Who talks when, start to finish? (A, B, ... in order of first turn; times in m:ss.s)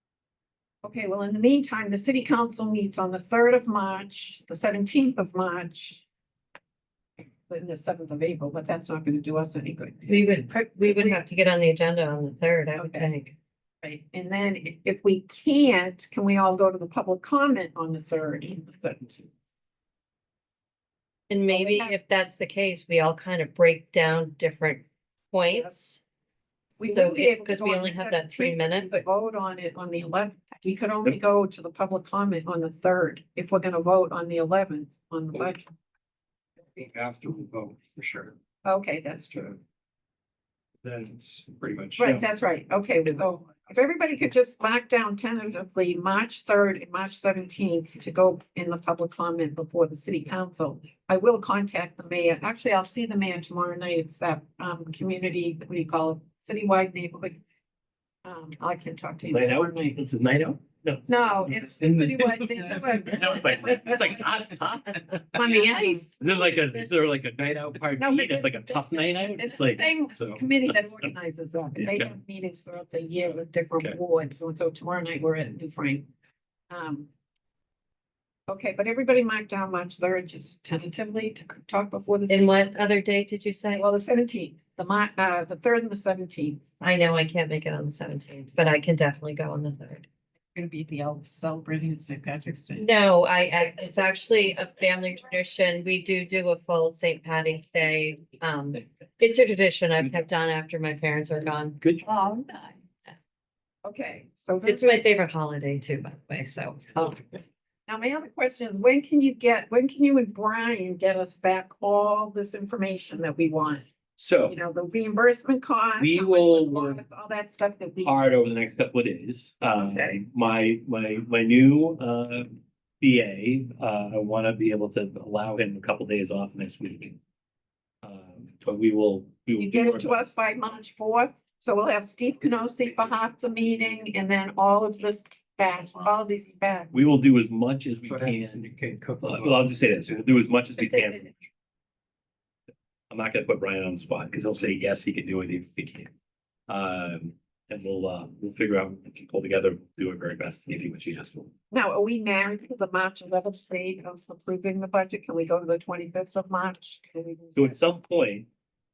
0:00.8-0:06.0 A
0:07.5-0:11.2 A
0:10.1-0:13.3 B
0:12.8-0:13.1 A
0:13.8-0:19.3 A
0:21.3-0:26.0 B
0:21.5-0:21.9 A
0:26.8-0:35.7 A
0:26.8-0:29.0 B
0:36.7-0:38.3 C
0:38.6-0:39.5 A
0:40.8-0:42.2 C
0:42.0-0:57.4 A
0:58.2-1:00.0 A
0:59.3-1:01.5 D
1:01.1-1:04.4 A
1:01.8-1:03.4 C
1:02.6-1:05.6 D
1:05.3-1:06.2 A
1:06.2-1:11.1 D
1:08.0-1:16.1 A
1:11.8-1:12.1 D
1:16.7-1:17.1 A
1:18.5-1:22.7 A
1:22.3-1:23.8 B
1:23.7-1:26.6 A
1:26.8-1:30.1 B
1:30.5-1:32.8 A
1:32.8-1:41.8 B
1:41.8-1:42.1 D
1:42.0-1:42.7 A
1:43.8-1:44.9 A
1:44.6-1:47.2 B
1:47.9-1:53.8 A
1:54.2-1:54.6 D
1:54.4-1:58.2 A
1:56.0-1:57.0 D
1:58.0-2:07.2 D
1:59.8-2:00.2 A
2:08.0-2:10.2 D
2:09.6-2:16.9 A
2:16.9-2:18.6 D
2:18.0-2:20.0 C
2:19.2-2:21.3 D
2:23.1-2:26.1 D
2:26.7-2:31.5 D
2:31.7-2:37.8 A
2:37.6-2:38.5 D